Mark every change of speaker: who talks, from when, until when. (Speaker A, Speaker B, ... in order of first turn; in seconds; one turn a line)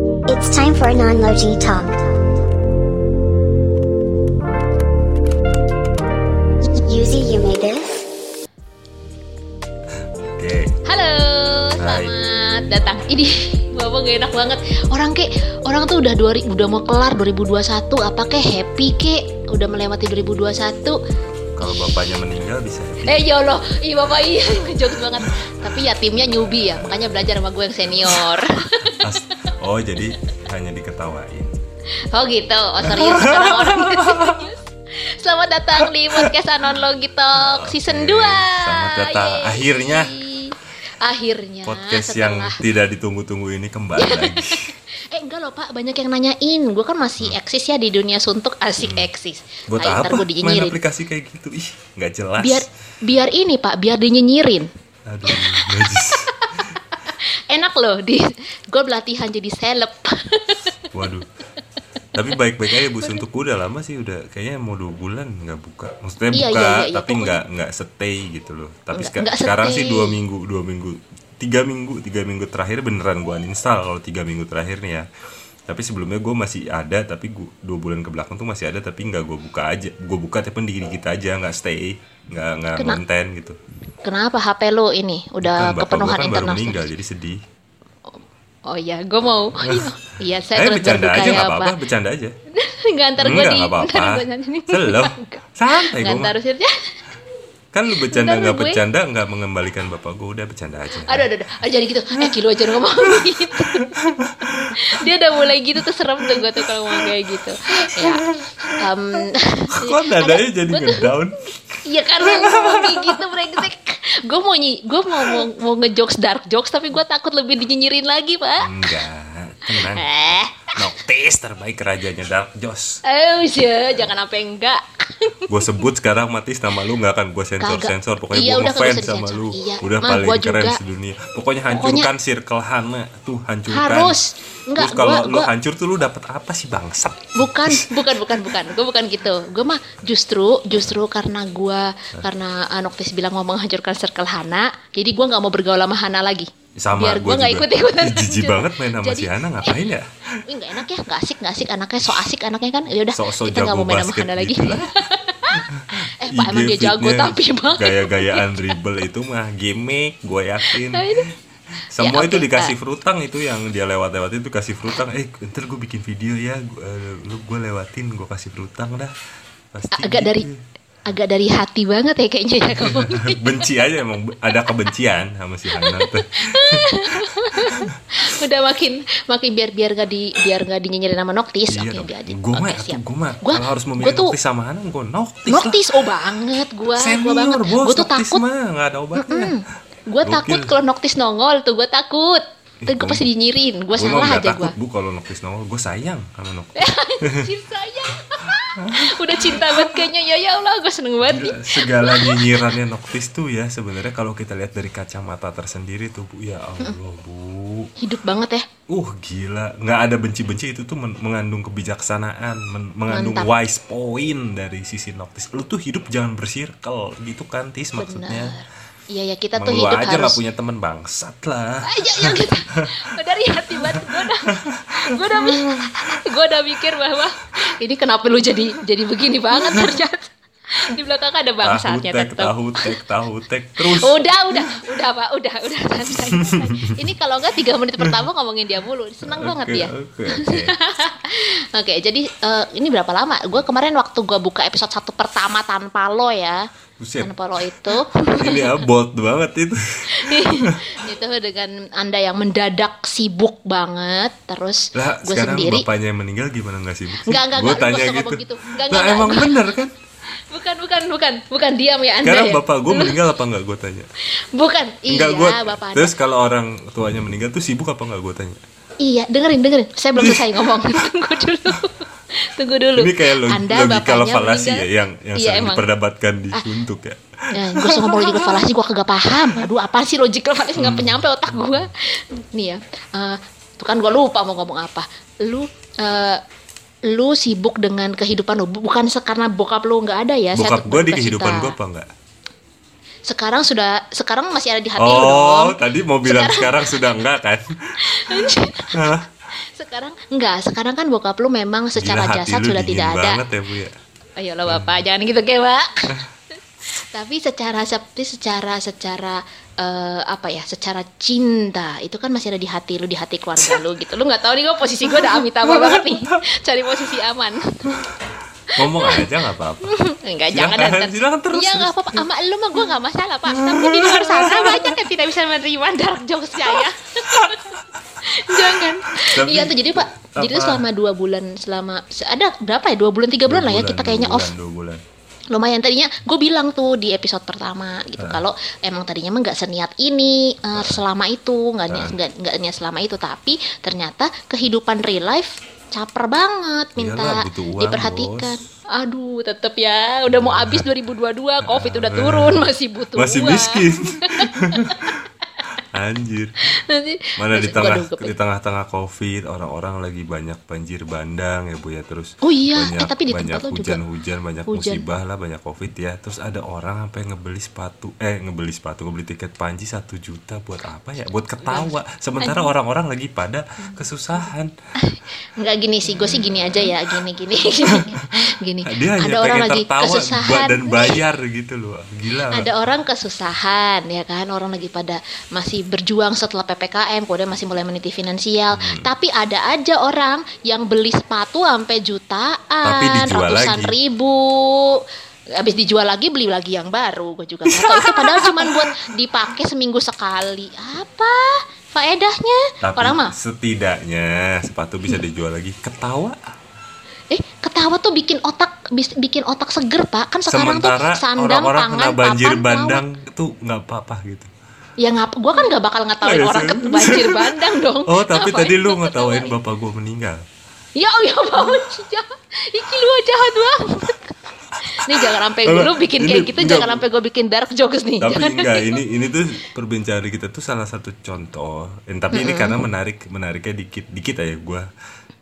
Speaker A: 0.3-2.1
Speaker A: 6.7-7.9
Speaker B: 10.3-10.7
Speaker C: 10.8-21.0
Speaker B: 11.8-12.1
Speaker B: 21.5-23.3
Speaker C: 23.1-29.0
Speaker B: 29.0-31.6
Speaker C: 32.1-42.6
Speaker B: 32.8-34.5
Speaker B: 35.8-36.3
Speaker B: 37.4-40.1
Speaker B: 41.6-44.7
Speaker C: 44.0-50.8
Speaker B: 48.8-49.1
Speaker B: 49.7-52.6
Speaker C: 52.4-54.7
Speaker B: 55.1-56.8
Speaker C: 55.3-60.8
Speaker B: 60.9-61.3
Speaker B: 62.1-75.0
Speaker C: 62.8-63.2
Speaker C: 66.3-67.4
Speaker C: 68.9-70.2
Speaker B: 75.7-83.6
Speaker C: 84.0-86.9
Speaker B: 85.4-87.4
Speaker C: 88.1-91.7
Speaker B: 89.6-89.9
Speaker B: 90.5-92.3
Speaker C: 92.5-96.7
Speaker B: 93.2-96.3
Speaker B: 97.7-101.3
Speaker C: 97.9-98.8
Speaker C: 101.0-111.1
Speaker B: 102.2-105.5
Speaker B: 106.2-107.1
Speaker B: 107.8-108.8
Speaker B: 109.7-113.6
Speaker C: 111.8-119.0
Speaker B: 115.2-115.4
Speaker B: 118.6-123.0
Speaker C: 119.7-120.8
Speaker C: 123.0-125.8
Speaker B: 125.5-134.2
Speaker C: 127.6-130.8
Speaker C: 131.7-132.1
Speaker C: 133.7-135.5
Speaker B: 134.8-138.5
Speaker C: 137.3-149.8
Speaker B: 146.8-150.4
Speaker C: 150.5-158.8
Speaker B: 153.1-154.9
Speaker B: 155.5-161.3
Speaker C: 160.6-161.3
Speaker B: 161.9-169.1
Speaker C: 162.0-162.7
Speaker B: 169.7-170.6
Speaker C: 169.9-170.5
Speaker C: 171.1-173.6
Speaker B: 172.8-177.9
Speaker C: 175.7-184.3
Speaker B: 181.7-185.8
Speaker C: 185.5-188.4
Speaker B: 186.9-189.6
Speaker C: 189.2-194.7
Speaker B: 190.2-190.7
Speaker B: 192.8-193.2
Speaker B: 193.9-197.4
Speaker C: 196.8-202.8
Speaker B: 198.3-200.1
Speaker B: 201.2-207.9
Speaker C: 208.0-208.6
Speaker B: 208.9-218.5
Speaker C: 213.1-213.5
Speaker C: 217.9-220.4
Speaker B: 219.6-222.5
Speaker C: 221.8-233.0
Speaker B: 223.7-226.1
Speaker B: 229.6-229.9
Speaker B: 231.6-234.6
Speaker C: 233.8-246.6
Speaker B: 236.1-236.9
Speaker B: 239.2-240.7
Speaker B: 247.0-250.9
Speaker C: 247.2-248.8
Speaker C: 250.1-255.8
Speaker B: 254.9-259.9
Speaker C: 257.2-259.8
Speaker C: 260.5-263.2
Speaker B: 262.2-264.1
Speaker C: 264.5-266.1
Speaker B: 265.1-268.6
Speaker C: 269.0-275.8
Speaker B: 270.2-270.5
Speaker B: 272.9-278.6
Speaker C: 277.5-286.4
Speaker B: 280.7-281.2
Speaker C: 287.1-291.7
Speaker B: 290.5-292.1
Speaker C: 293.3-296.9
Speaker B: 295.0-299.2
Speaker C: 298.0-303.4
Speaker B: 301.9-303.9
Speaker C: 304.4-306.2
Speaker B: 304.7-304.9
Speaker C: 306.9-318.1
Speaker B: 313.6-313.8
Speaker B: 315.1-316.3
Speaker C: 318.7-319.3
Speaker B: 318.8-319.9
Speaker C: 319.9-334.5
Speaker B: 320.5-322.2
Speaker B: 323.5-324.9
Speaker B: 326.7-327.8
Speaker B: 328.5-330.8
Speaker B: 333.5-335.0
Speaker C: 335.5-355.2
Speaker B: 338.2-338.4
Speaker B: 341.9-342.1
Speaker B: 347.0-348.7
Speaker B: 350.3-350.9
Speaker B: 351.6-355.2
Speaker B: 355.8-356.7
Speaker C: 356.7-358.3
Speaker B: 357.4-374.7
Speaker C: 362.4-364.0
Speaker C: 364.7-365.0
Speaker C: 371.6-371.9
Speaker C: 372.4-372.7
Speaker C: 375.0-381.2
Speaker B: 376.1-377.2
Speaker B: 377.8-378.2
Speaker B: 378.9-382.7
Speaker C: 382.5-395.0
Speaker B: 388.7-389.1
Speaker B: 392.8-393.9
Speaker C: 395.6-403.3
Speaker B: 397.7-398.9
Speaker B: 402.8-406.5
Speaker C: 407.3-413.0
Speaker B: 410.5-414.5
Speaker C: 415.0-419.5
Speaker B: 416.2-420.4
Speaker C: 420.9-429.0
Speaker B: 424.8-427.0
Speaker B: 428.2-434.9
Speaker C: 432.3-432.8